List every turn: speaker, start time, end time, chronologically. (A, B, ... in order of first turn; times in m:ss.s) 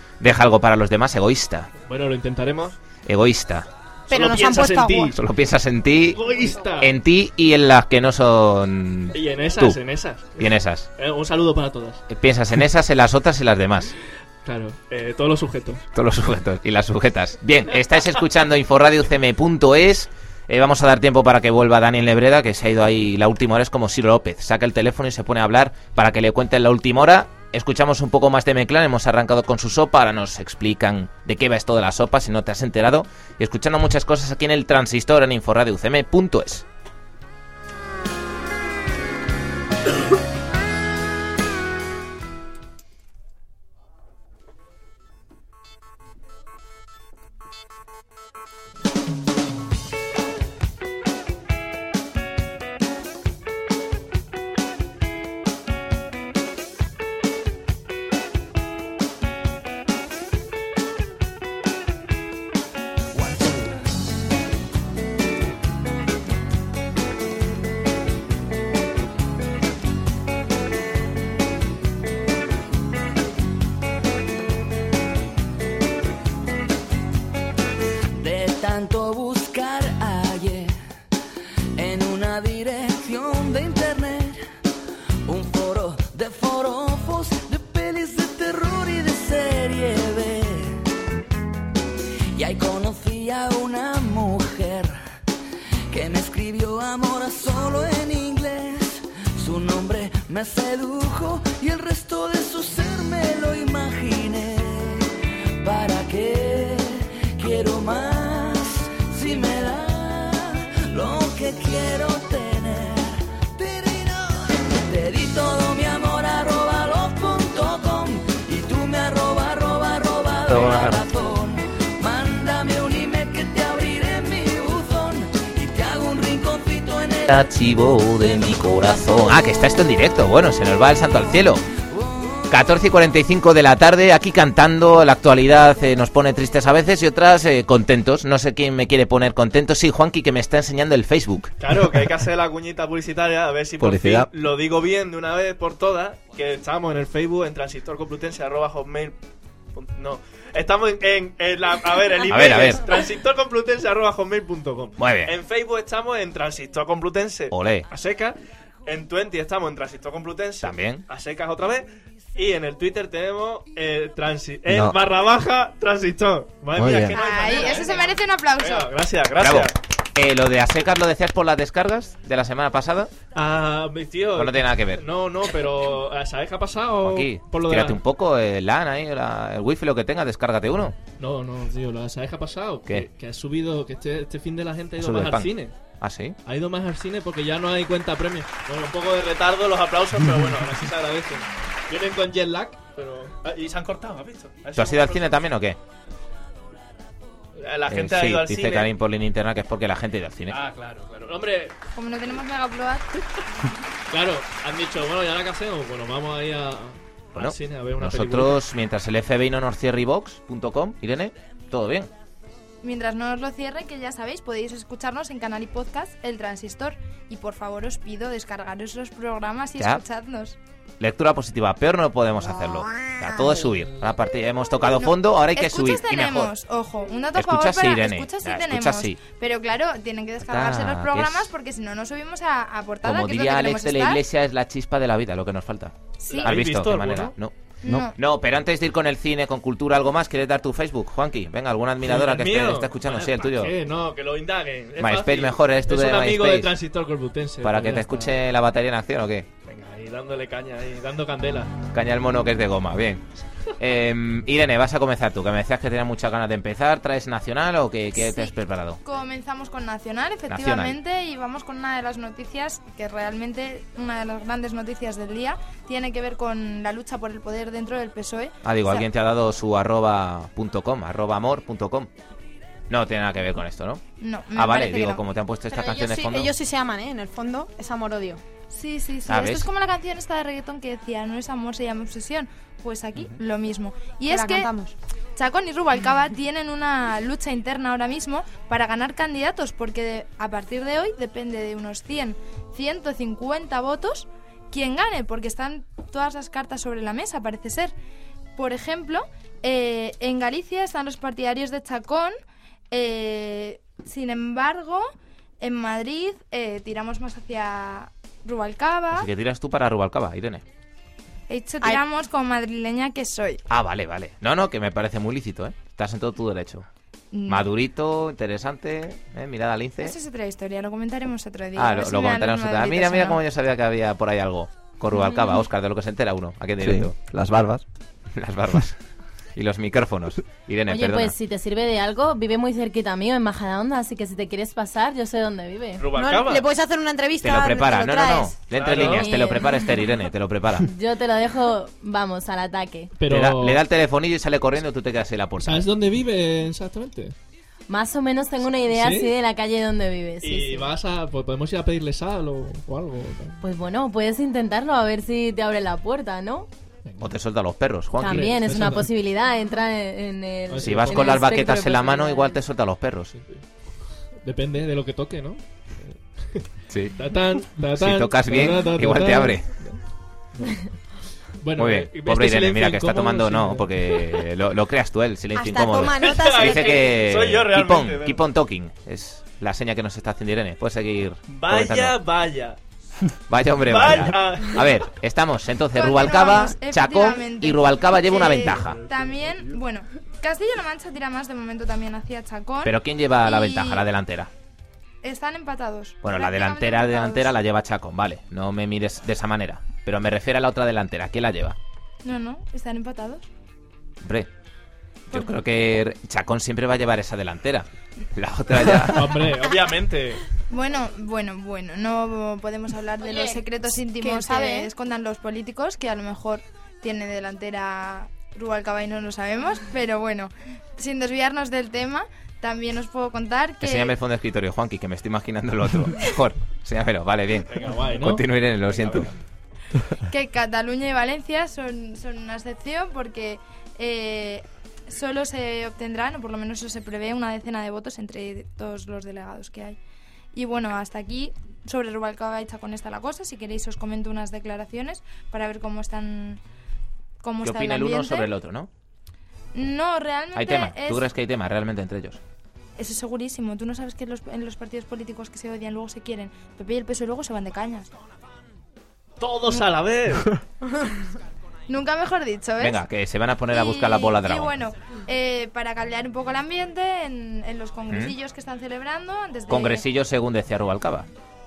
0:00.2-0:01.7 A
0:01.8-0:02.8 B
0:03.1-0:03.7 A
0:04.1-0:05.2 B
0:04.1-0:05.1 C
0:05.1-0:06.2 A
0:06.1-0:06.9 B
0:06.8-0:09.8 A
0:09.1-0:12.0 B
0:10.4-0:10.9 A
0:12.1-0:14.0 A
0:14.4-0:15.8 B
0:16.0-0:36.6 A
1:18.2-1:20.8 D
1:21.8-1:24.4 D
1:25.3-1:30.8 D
1:32.3-1:35.0 D
1:35.9-1:45.1 D
1:45.6-2:07.5 D
2:00.5-2:01.0 A
2:07.3-2:11.6 A
2:08.3-2:09.2 D
2:12.5-2:21.6 A
2:21.6-2:29.2 B
2:23.8-2:24.3 E
2:29.7-2:49.8 B
2:32.3-2:32.8 A
2:35.0-2:35.4 A
2:37.5-2:37.9 A
2:40.6-2:41.0 A
2:44.7-2:45.0 E
2:46.8-2:47.2 E
2:47.1-2:48.9 F
2:49.4-2:53.1 A
2:53.3-2:58.0 B
2:54.4-2:55.0 A
2:57.0-3:01.0 A
3:01.2-3:05.8 B
3:05.0-3:06.4 A
3:06.4-3:15.4 B
3:14.8-3:15.8 A
3:17.6-3:18.9 B
3:17.9-3:20.6 A
3:20.5-3:21.8 B
3:22.0-3:23.1 F
3:24.1-3:28.6 B
3:27.4-3:32.1 A
3:32.8-3:40.6 F
3:41.0-3:46.5 A
3:45.0-3:54.2 F
3:47.4-3:49.2 A
3:50.4-3:51.5 A
3:53.0-3:57.5 A
3:56.2-3:56.6 F
3:56.3-3:57.4 B
3:57.8-3:58.2 F
3:58.2-4:03.7 A
4:02.0-4:08.4 B
4:05.0-4:06.8 A
4:07.6-4:09.5 A
4:09.6-4:11.8 B
4:11.9-4:13.3 A
4:13.8-4:19.0 A
4:18.2-4:18.5 F
4:19.0-4:29.1 F
4:20.5-4:21.0 A
4:28.6-4:32.1 A
4:32.9-4:34.0 A
4:34.2-4:35.2 F
4:34.6-4:36.5 A
4:35.7-4:38.4 C
4:38.7-4:44.7 F
4:39.3-4:39.7 A
4:44.3-4:44.9 C
4:45.4-4:57.9 F
4:58.6-5:02.4 F
5:02.9-5:05.1 F
5:05.6-5:09.3 F
5:09.1-5:10.6 A
5:11.5-5:13.6 F
5:13.7-5:16.9 A
5:17.3-5:17.7 F
5:17.5-5:20.2 A
5:20.0-5:23.4 F
5:21.8-5:27.2 A
5:26.8-5:27.8 E
5:28.4-5:29.0 A
5:29.6-5:31.3 A
5:30.9-5:36.1 G
5:36.0-5:36.7 B
5:36.1-5:38.6 C
5:37.4-5:40.9 A
5:38.7-5:39.3 B
5:39.0-5:40.0 G
5:40.8-5:43.1 G
5:43.2-5:43.8 B
5:43.3-5:45.9 A
5:45.6-5:47.4 B
5:47.9-5:50.9 G
5:48.9-5:49.3 B
5:50.4-5:53.6 B
5:53.6-5:56.7 G
5:57.1-5:57.3 B
5:57.2-5:58.6 A
5:58.2-6:02.6 G
5:58.2-5:59.1 B
6:00.7-6:01.6 B
6:00.8-6:03.3 A
6:03.3-6:03.6 B
6:04.4-6:10.0 B
6:06.9-6:07.2 A
6:08.0-6:09.7 A
6:10.6-6:10.9 B
6:11.6-6:14.4 B
6:11.8-6:22.2 A
6:15.6-6:17.0 C
6:16.2-6:18.4 B
6:21.5-6:22.8 B
6:23.5-6:29.0 A
6:23.8-6:25.0 B
6:26.0-6:34.1 F
6:29.1-6:29.6 B
6:32.8-6:34.5 A
6:35.2-6:37.5 F
6:36.2-6:41.8 A
6:42.2-6:43.5 F
6:44.2-6:44.5 A
6:45.3-6:49.5 A
6:49.1-6:50.4 B
6:50.7-7:04.1 F
6:53.2-6:53.6 C
6:54.2-6:54.9 C
7:03.8-7:09.3 A
7:07.7-7:09.3 B
7:10.3-7:20.0 F
7:20.5-7:26.6 F
7:27.4-7:28.5 F
7:27.6-7:28.9 A
7:29.7-7:31.2 F
7:30.6-7:32.4 A
7:33.0-7:38.1 F
7:39.4-7:40.6 B
7:41.9-7:43.0 F
7:42.8-7:44.7 A
7:43.7-7:50.0 F
7:48.1-7:48.4 A
7:49.7-7:51.3 A